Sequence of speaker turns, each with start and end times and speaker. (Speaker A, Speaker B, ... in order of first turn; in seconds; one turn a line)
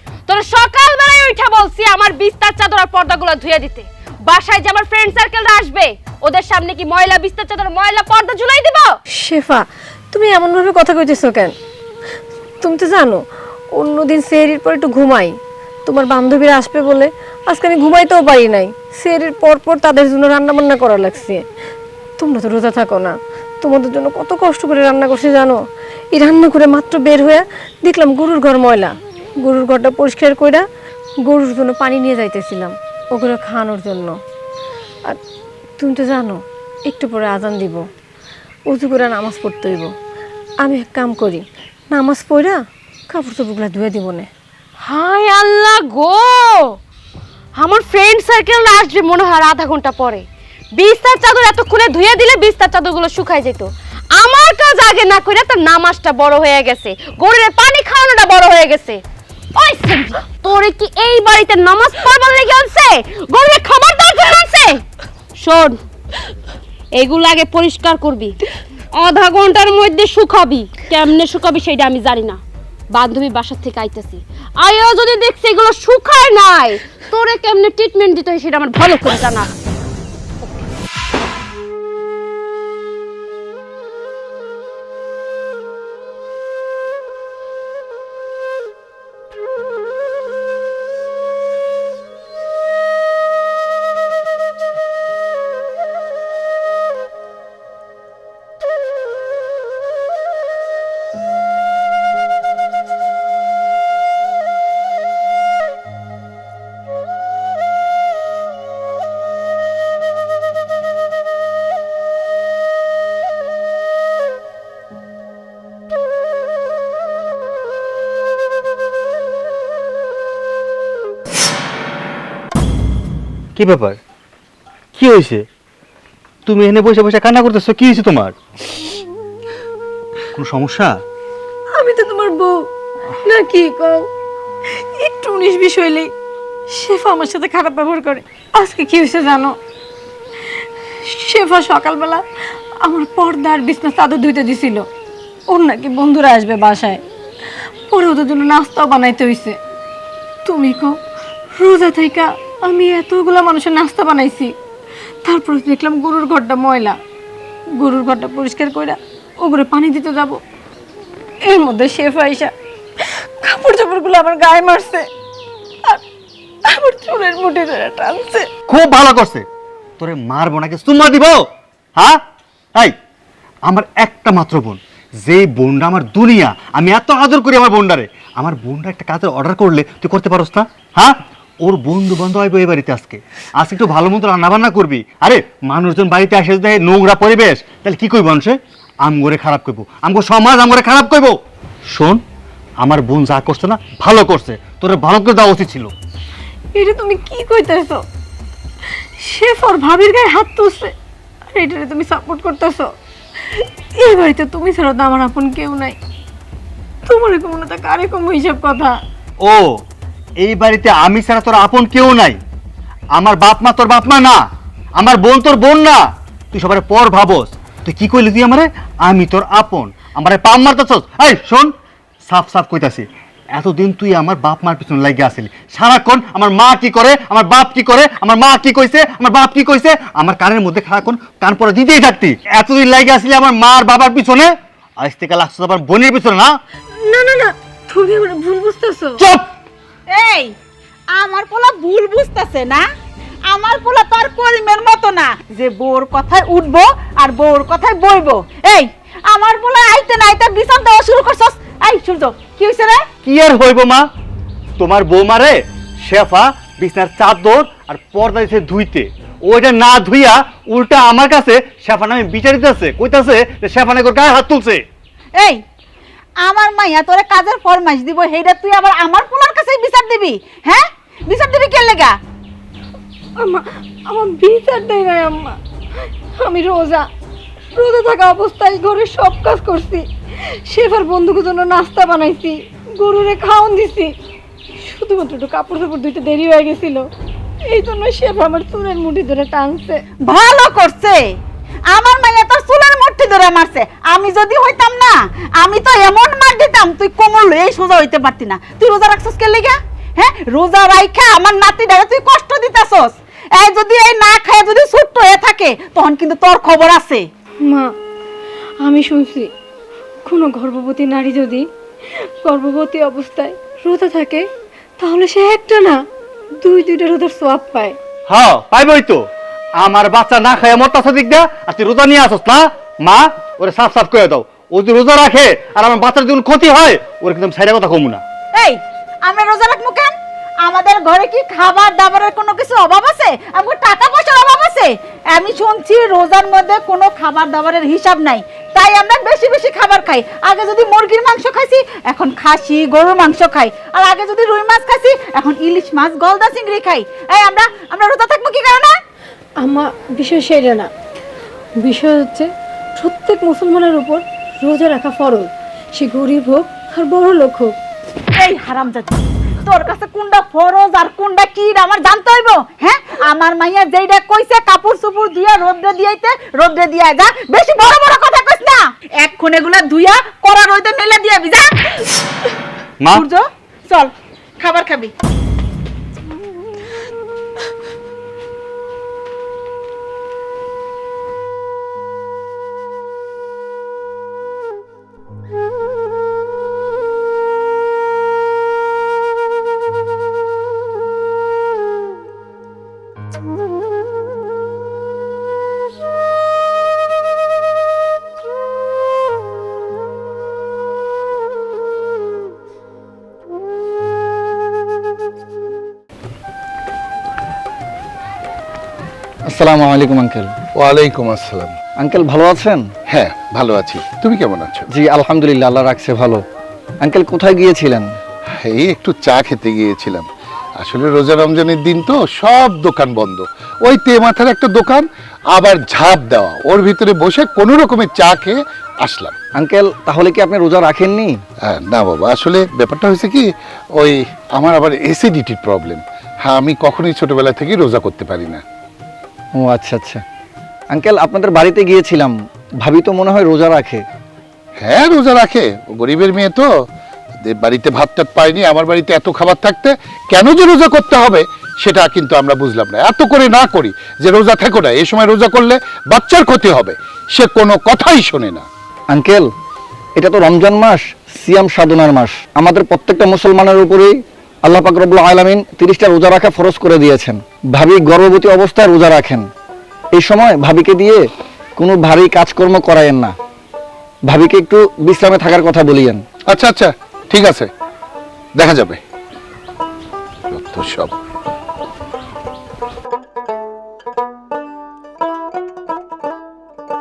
Speaker A: 0.3-8.9
Speaker B: 9.2-11.5
Speaker B: 12.6-13.2
Speaker B: 13.7-21.4
Speaker B: 22.2-25.6
Speaker B: 26.1-30.6
Speaker B: 31.2-34.2
Speaker B: 35.8-37.8
Speaker B: 38.7-39.9
Speaker B: 40.6-44.3
Speaker A: 44.8-46.7
Speaker A: 47.6-50.2
Speaker A: 50.8-59.0
Speaker A: 59.5-64.8
Speaker A: 65.4-65.8
Speaker A: 67.0-68.4
Speaker A: 68.9-72.4
Speaker A: 72.9-79.5
Speaker C: 123.5-124.0
Speaker C: 124.9-125.5
Speaker C: 126.4-128.4
Speaker C: 130.3-131.0
Speaker B: 131.7-132.7
Speaker B: 133.2-134.1
Speaker B: 134.7-136.1
Speaker B: 136.7-139.6
Speaker B: 141.0-142.2
Speaker B: 142.8-144.8
Speaker B: 145.5-147.0
Speaker B: 147.9-149.6
Speaker B: 150.4-151.0
Speaker B: 151.5-154.5
Speaker B: 155.2-157.0
Speaker B: 157.8-160.4
Speaker B: 161.4-165.1
Speaker B: 166.6-168.5
Speaker C: 168.7-169.5
Speaker C: 170.0-172.2
Speaker C: 173.7-191.4
Speaker C: 191.9-192.2
Speaker C: 192.8-195.9
Speaker B: 196.7-198.0
Speaker B: 199.2-200.9
Speaker B: 201.5-202.9
Speaker B: 203.5-206.0
Speaker B: 207.1-209.0
Speaker C: 209.4-209.8
Speaker C: 210.4-212.4
Speaker C: 213.1-214.4
Speaker C: 215.0-221.7
Speaker C: 222.2-236.6
Speaker B: 236.9-239.2
Speaker C: 239.2-239.5
Speaker D: 240.1-240.5
Speaker D: 241.1-242.9
Speaker D: 243.5-253.1
Speaker C: 253.2-254.1
Speaker C: 254.8-264.9
Speaker D: 265.4-265.6
Speaker D: 266.4-272.2
Speaker B: 273.4-275.6
Speaker B: 276.4-277.1
Speaker B: 277.7-284.1
Speaker B: 284.8-287.1
Speaker B: 287.6-290.0
Speaker D: 290.2-307.3
Speaker B: 307.6-307.9
Speaker B: 308.8-309.5
Speaker B: 310.2-314.4
Speaker B: 315.0-316.0
Speaker B: 316.6-317.9
Speaker C: 318.3-319.3
Speaker C: 319.8-328.2
Speaker D: 328.5-349.0
Speaker B: 349.6-350.9
Speaker B: 351.8-357.7
Speaker D: 358.3-372.1
Speaker D: 373.1-375.1
Speaker E: 409.5-410.5
Speaker F: 410.8-411.8
Speaker E: 412.0-412.9
Speaker F: 413.1-414.9
Speaker E: 414.9-416.4
Speaker E: 417.0-418.1
Speaker F: 418.6-420.2
Speaker F: 420.8-429.4
Speaker E: 429.5-431.4
Speaker F: 431.7-438.6
Speaker E: 439.6-440.2
Speaker E: 440.9-444.0
Speaker F: 444.8-446.8
Speaker F: 447.4-458.7
Speaker E: 459.1-459.5
Speaker E: 460.2-469.5
Speaker E: 470.1-471.2
Speaker E: 471.8-473.3
Speaker E: 474.3-476.2
Speaker F: 476.5-477.7
Speaker F: 478.6-479.0
Speaker F: 480.5-481.1